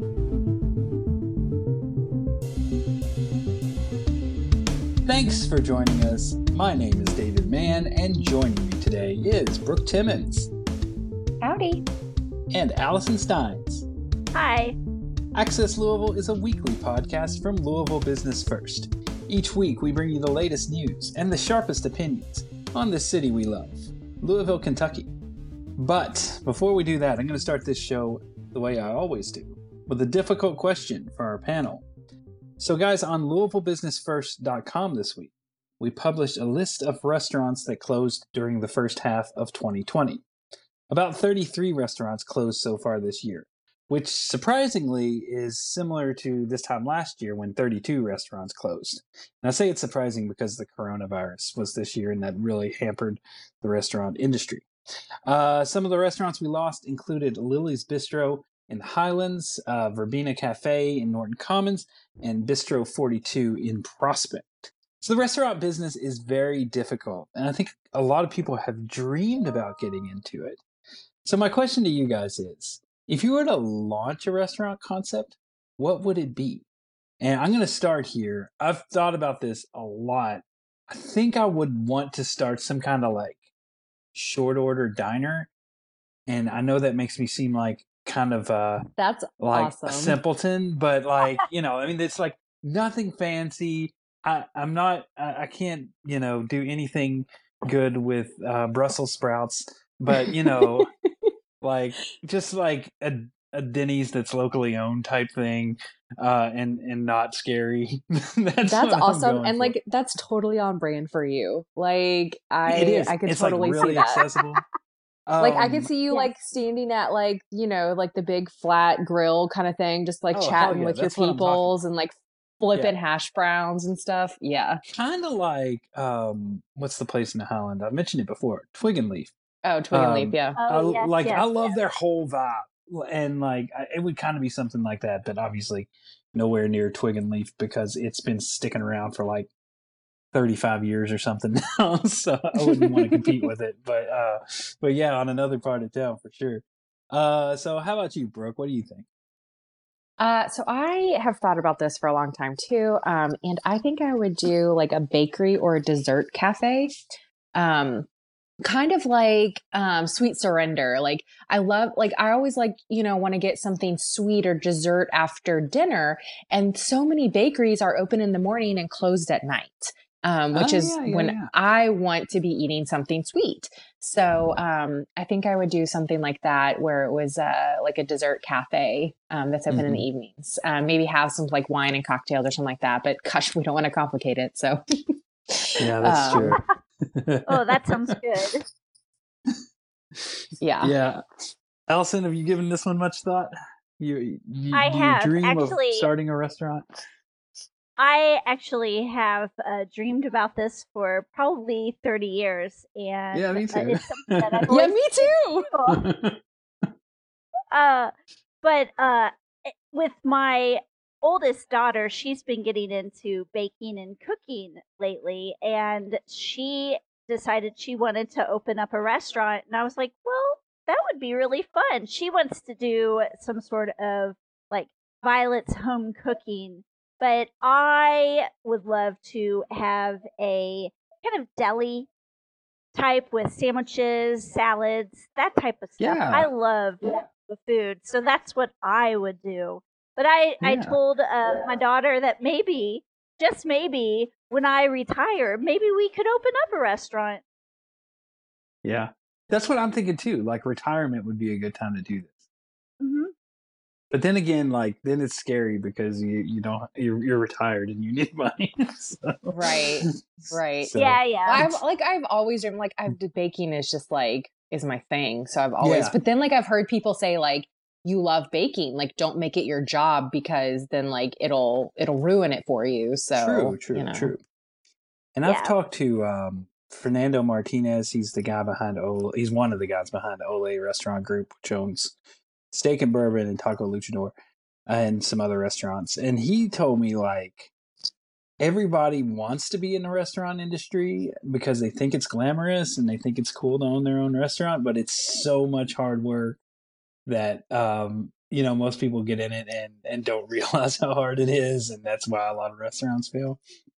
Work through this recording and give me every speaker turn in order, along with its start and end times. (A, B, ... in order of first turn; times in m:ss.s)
0:05.1-0:10.5 A
0:11.4-0:11.8 B
0:12.5-0:13.9 A
0:14.3-0:14.8 C
0:15.4-0:25.1 A
0:25.8-0:31.9 A
0:32.6-0:40.2 A
0:40.9-0:54.7 A
0:55.3-1:10.6 A
1:11.2-1:16.6 A
1:17.2-1:23.4 A
1:24.1-1:25.5 A
1:26.3-1:28.8 A
1:29.0-1:30.2 B
1:29.4-1:40.9 A
1:40.2-1:41.3 B
1:41.6-1:49.8 A
1:48.7-1:54.2 B
1:52.7-1:54.6 A
1:55.3-1:55.9 A
1:55.4-2:04.8 B
1:56.1-1:56.3 C
2:00.3-2:01.7 A
2:04.9-2:09.3 A
2:09.6-2:10.6 B
2:09.9-2:19.5 A
2:10.6-2:11.8 C
2:20.3-2:29.1 A
2:22.6-2:23.4 B
2:30.2-2:36.9 B
2:37.6-2:38.1 B
2:38.6-3:04.8 B
2:50.5-2:51.5 A
2:59.7-3:00.0 A
3:05.5-3:06.6 B
3:05.8-3:06.6 A
3:06.4-3:06.6 C
3:07.2-3:08.2 A
3:07.5-3:08.6 C
3:10.2-3:11.2 A
3:10.6-3:10.9 B
3:11.9-3:17.0 A
3:14.7-3:16.1 C
3:18.0-3:26.0 C
3:23.3-3:24.7 A
3:24.7-3:25.7 B
3:25.9-3:26.4 A
3:27.7-3:28.1 C
3:28.6-3:52.1 C
3:52.9-4:07.4 C
3:56.0-3:56.5 A
4:00.6-4:01.0 A
4:08.8-4:12.4 A
4:13.0-4:13.3 C
4:14.1-4:21.8 A
4:19.5-4:34.3 B
4:21.0-4:21.6 C
4:25.8-4:26.2 A
4:33.4-4:34.4 A
4:35.4-4:42.2 A
4:35.5-4:35.7 C
4:42.7-4:44.3 A
4:44.9-4:47.7 A
4:48.6-4:56.6 A
4:57.3-5:03.6 A